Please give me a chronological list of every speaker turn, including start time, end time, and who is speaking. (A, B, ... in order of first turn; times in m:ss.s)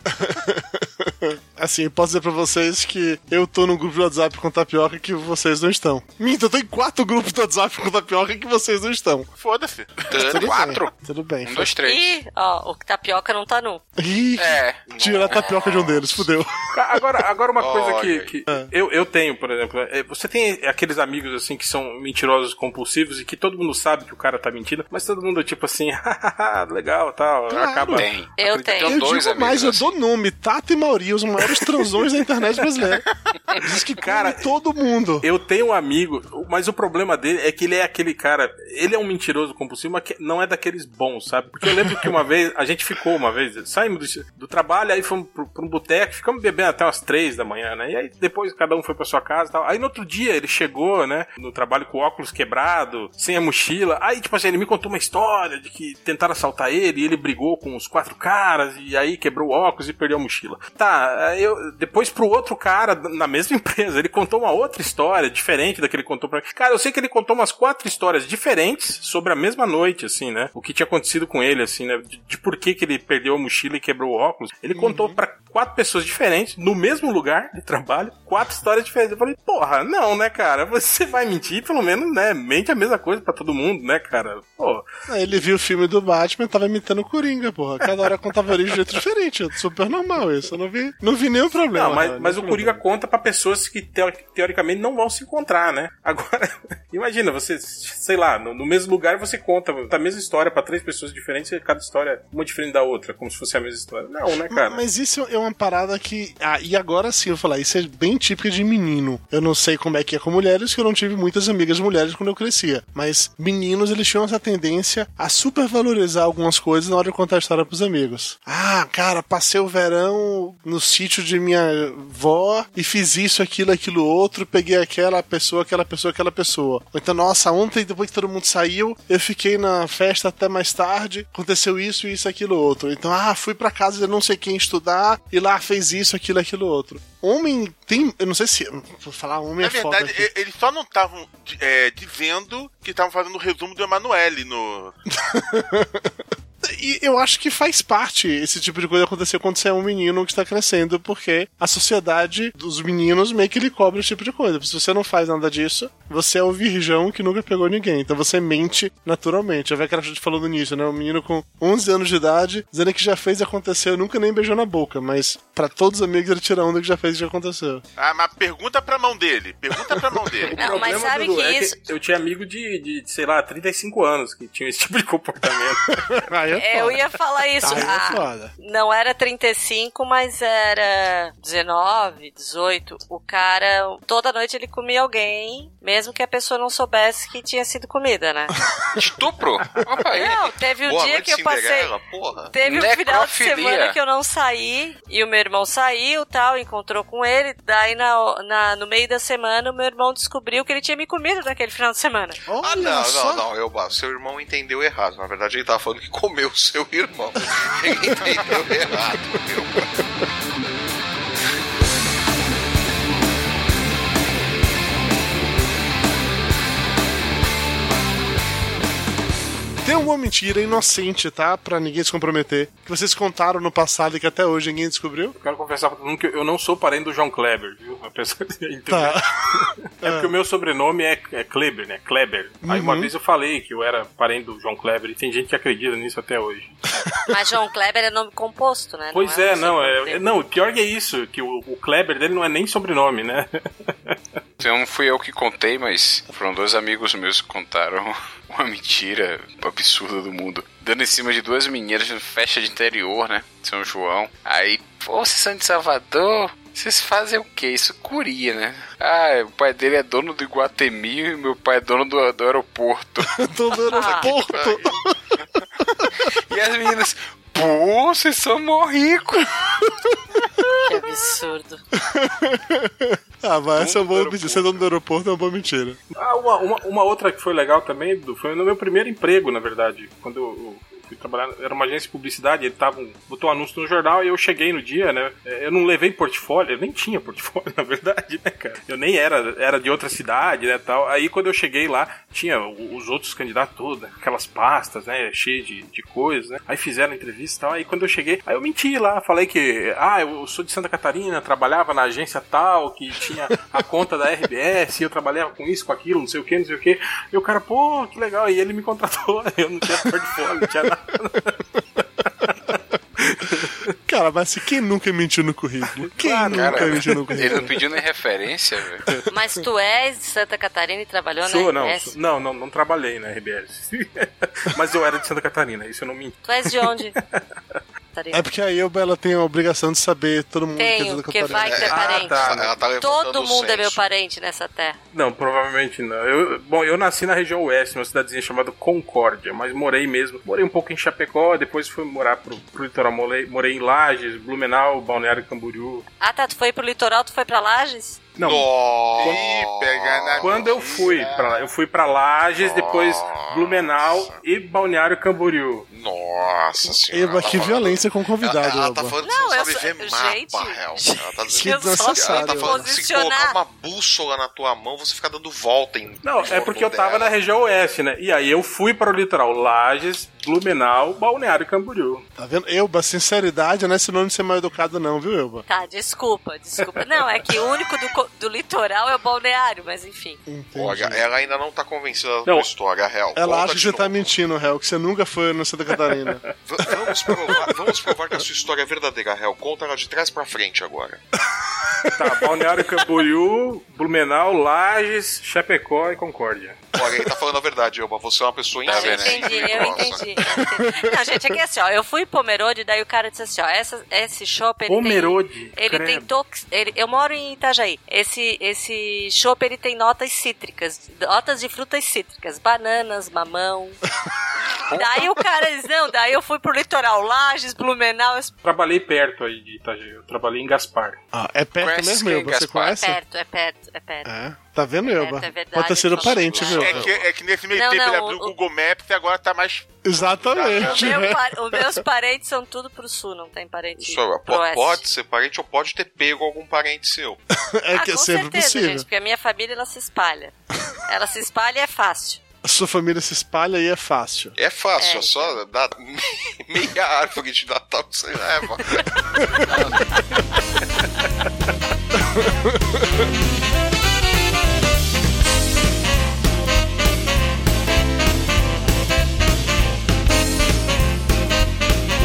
0:00.1-0:09.3 A
0:09.4-0:10.1 B
0:10.1-0:10.8 C
0:10.2-0:11.7 A
0:10.3-0:12.2 D
0:11.8-0:13.8 E
0:14.0-0:16.5 A
0:14.4-0:15.8 D
0:14.9-0:16.1 C
0:16.7-0:28.8 F
0:17.6-0:18.3 C
0:27.5-0:28.0 A
0:27.9-0:30.0 D
0:28.4-0:29.0 E
0:28.8-0:35.2 A
0:33.6-0:34.4 F
0:35.2-1:24.8 F
1:14.7-1:15.2 A
1:25.1-1:32.8 A
1:31.7-1:44.8 F
1:44.5-2:20.3 A
2:19.6-2:24.9 B
2:25.1-2:47.8 A
2:48.0-2:50.5 B
2:50.5-2:56.1 F
2:50.6-2:51.8 E
2:56.1-2:57.0 A
2:56.6-3:08.6 E
2:57.6-2:58.5 A
3:09.0-3:10.5 D
3:10.1-3:11.9 E
3:10.8-3:12.5 C
3:12.5-3:22.4 E
3:12.6-3:14.0 D
3:22.5-3:23.4 A
3:22.6-3:29.9 C
3:39.8-3:45.3 A
3:45.4-3:56.8 F
3:48.9-3:49.2 A
3:50.0-3:50.3 A
3:52.6-3:53.1 A
3:57.3-4:00.2 E
3:59.1-4:04.1 F
4:04.6-4:23.3 D
4:23.3-4:25.2 A
4:23.8-4:24.3 E
4:24.2-4:25.0 C
4:25.8-4:26.1 A
4:26.3-4:29.5 D
4:29.8-4:30.5 A
4:30.8-4:31.8 E
4:32.0-4:36.0 A
4:33.7-4:34.9 D
4:36.2-5:11.6 F
5:12.4-5:13.9 F
5:14.1-5:17.7 A
5:16.0-5:17.7 F
5:16.5-5:19.0 D
5:19.3-5:22.2 E
5:21.4-5:27.2 F
5:26.4-5:27.2 E
5:28.1-5:28.4 E
5:28.3-5:32.0 A
5:30.7-5:32.4 E
5:31.6-5:34.0 C
5:31.9-5:32.7 F
5:33.0-5:35.0 E
5:35.1-5:46.0 F
5:46.2-5:48.2 E
5:48.4-5:49.4 F
5:48.4-5:51.2 C
5:49.1-5:51.6 B
5:50.4-5:55.9 F
5:52.6-5:54.3 C
5:55.9-6:07.3 C
5:57.1-5:59.2 A
5:59.2-6:03.6 E
6:01.5-6:02.8 A
6:06.2-6:12.2 F
6:12.4-6:15.6 A
6:15.7-6:20.4 E
6:20.4-6:21.3 A
6:20.7-6:24.2 C
6:23.3-6:26.4 A
6:26.1-6:26.3 F
6:26.6-6:31.2 C
6:27.2-6:27.6 F
6:32.1-6:36.8 F
6:36.9-6:40.6 C
6:38.8-6:40.2 D
6:38.9-6:54.0 E
6:40.8-6:41.4 A
6:44.9-6:46.3 F
6:54.9-6:55.2 D
6:54.9-6:58.5 E
6:58.6-7:01.2 F
7:01.3-7:03.2 A
7:01.8-7:03.0 D
7:02.8-7:04.3 E
7:04.2-7:07.1 A
7:05.0-7:06.9 E
7:06.7-7:11.2 B
7:07.7-7:08.5 E
7:10.0-7:12.0 A
7:10.7-7:15.0 E
7:14.0-7:17.4 C
7:17.7-7:19.0 A
7:17.9-7:20.5 E
7:21.1-7:22.4 E
7:22.6-7:24.6 A
7:24.6-7:29.7 C
7:25.0-7:25.6 E
7:29.4-7:29.7 A
7:29.7-7:30.0 D
7:32.2-7:33.2 A